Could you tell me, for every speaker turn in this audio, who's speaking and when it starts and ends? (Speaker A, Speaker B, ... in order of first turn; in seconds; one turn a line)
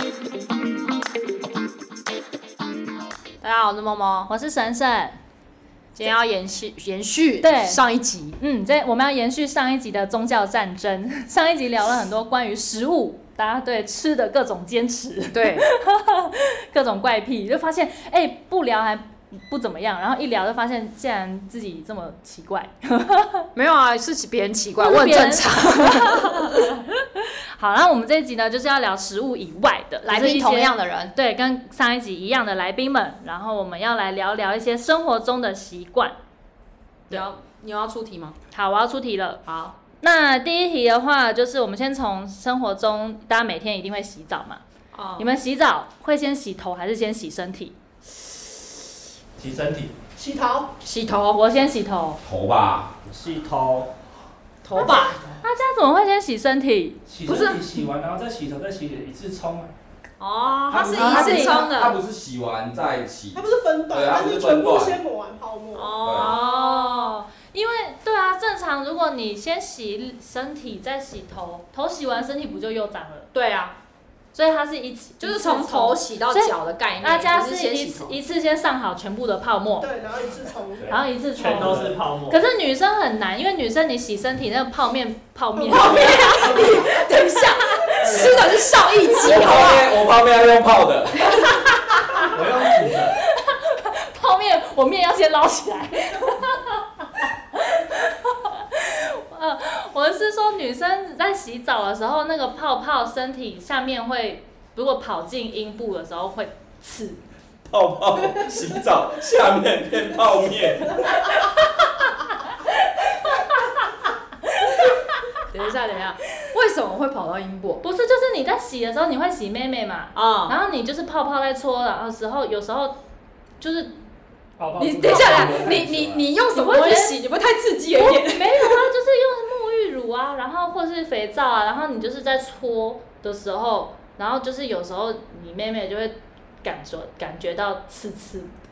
Speaker A: 3.4-4.3
Speaker B: 4.3-5.2
Speaker A: 5.9-8.4
Speaker B: 7.4-7.8
Speaker B: 8.4-23.4
Speaker A: 15.3-15.7
Speaker A: 23.5-26.6
Speaker B: 24.8-36.1
Speaker A: 30.1-31.1
Speaker A: 37.1-38.3
Speaker B: 38.5-44.6
Speaker A: 39.5-39.7
Speaker A: 44.9-45.3
Speaker B: 45.2-47.8
Speaker C: 49.4-49.9
Speaker D: 50.2-50.7
Speaker A: 50.8-51.4
Speaker B: 51.3-52.2
Speaker E: 52.2-52.9
Speaker F: 53.0-53.9
Speaker A: 54.6-55.2
Speaker B: 54.8-57.0
Speaker C: 54.8-55.4
Speaker C: 57.1-59.7
Speaker A: 57.2-57.8
Speaker A: 60.2-62.0
Speaker E: 60.7-65.0
Speaker B: 60.8-61.8
Speaker D: 63.3-66.0
Speaker A: 65.7-67.2
Speaker E: 66.0-66.3
Speaker B: 66.1-73.3
Speaker A: 73.3-73.8
Speaker B: 74.3-79.9
Speaker A: 75.2-78.2
Speaker D: 79.8-81.0
Speaker B: 80.9-87.8
Speaker F: 81.4-82.4
Speaker C: 81.4-81.9
Speaker A: 85.7-89.9
Speaker F: 88.0-88.5
Speaker E: 89.2-91.5
Speaker C: 92.2-93.2
Speaker B: 92.9-107.2
Speaker E: 107.7-111.4
Speaker B: 113.0-113.8
Speaker B: 114.5-115.3
Speaker A: 115.5-117.8
Speaker B: 117.8-123.0
Speaker A: 120.1-120.5
Speaker B: 123.6-123.9
Speaker C: 124.6-126.3
Speaker A: 124.8-128.8
Speaker B: 126.5-127.2
Speaker B: 127.9-138.5